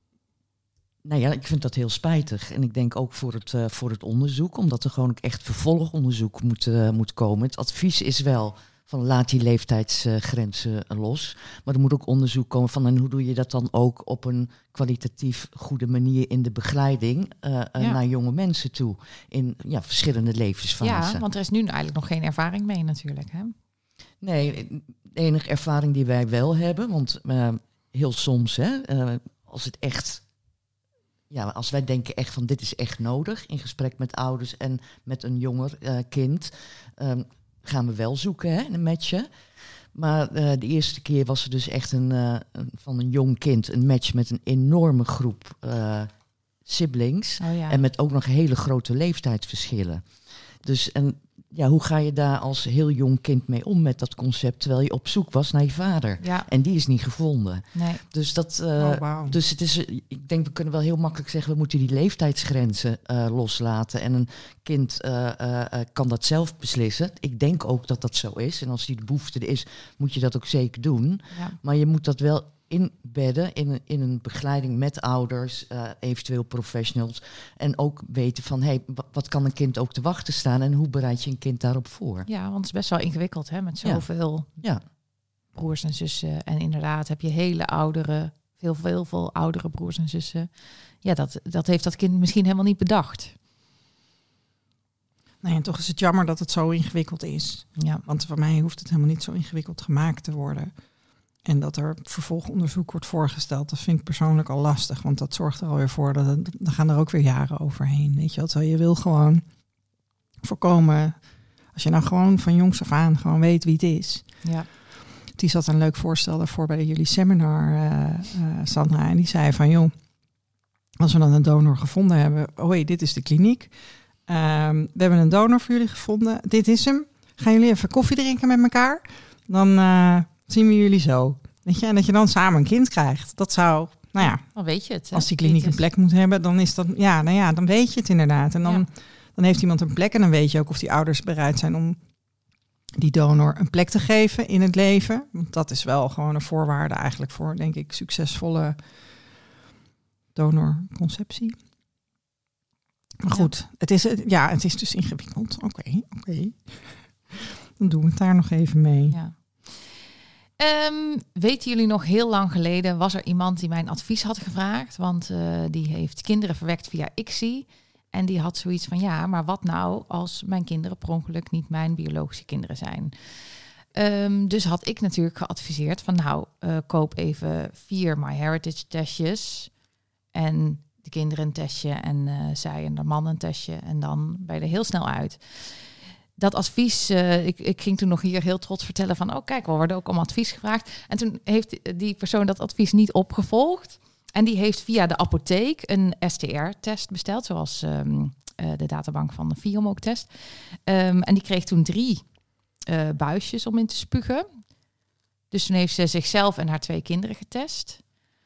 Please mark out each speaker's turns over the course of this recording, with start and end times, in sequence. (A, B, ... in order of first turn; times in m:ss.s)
0:01.0-0:21.2 A
0:20.8-0:23.5 B
0:24.2-0:30.2 A
0:31.3-0:39.3 A
0:39.9-1:22.3 A
0:47.4-0:47.8 B
0:56.2-0:56.5 B
0:57.7-0:58.0 B
0:58.8-0:59.4 C
1:11.3-1:11.6 B
1:22.3-1:24.5 B
1:25.5-1:33.3 B
1:35.4-1:40.7 C
1:37.8-1:38.0 B
1:41.4-1:49.4 C
1:50.4-1:54.4 C
1:54.4-1:54.7 B
1:55.3-1:59.9 C
2:01.0-2:03.7 C
2:04.2-2:14.5 C
2:14.2-2:15.8 B
2:15.1-2:22.0 C
2:23.0-2:28.8 C
2:30.3-2:31.6 C
2:33.2-2:39.2 C
2:39.1-2:40.0 B
2:40.6-2:59.7 B
3:00.3-3:22.3 B
3:22.9-3:24.7 B
3:25.5-3:28.0 B